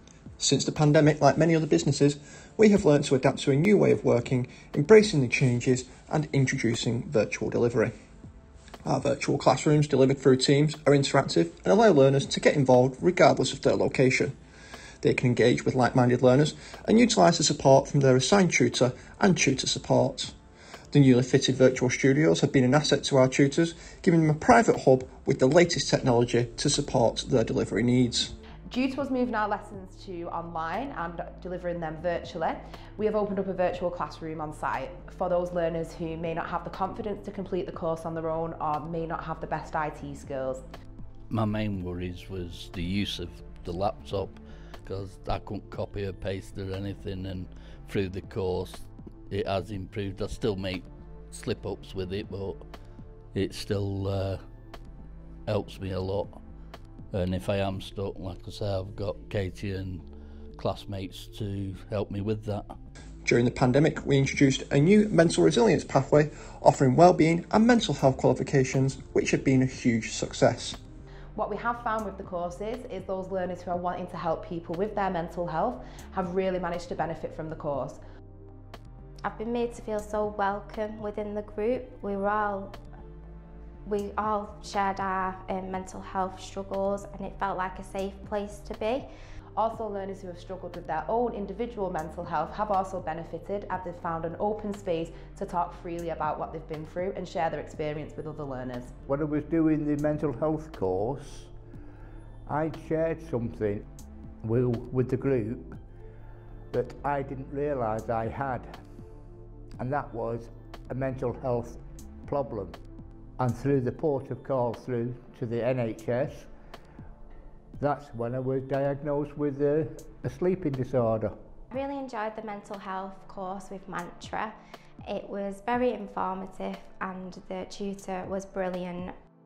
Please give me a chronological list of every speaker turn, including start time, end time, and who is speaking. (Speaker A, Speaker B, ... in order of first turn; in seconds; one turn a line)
Speaker A: 0.4-7.9
Speaker A: 8.8-14.3
Speaker A: 15.0-20.3
Speaker A: 20.9-28.3
Speaker B: 28.7-40.6
Speaker C: 41.3-52.6
Speaker C: 53.3-54.4
Speaker C: 55.5-56.4
Speaker C: 57.1-62.7
Speaker A: 63.2-70.8
Speaker B: 71.3-78.0
Speaker D: 79.2-82.8
Speaker D: 83.9-89.1
Speaker B: 89.5-98.9
Speaker E: 99.1-101.5
Speaker E: 102.5-103.8
Speaker E: 104.4-105.8
Speaker E: 106.7-108.7
Speaker E: 109.8-112.8
Speaker E: 113.4-116.5
Speaker E: 117.8-121.3
Speaker D: 121.7-129.2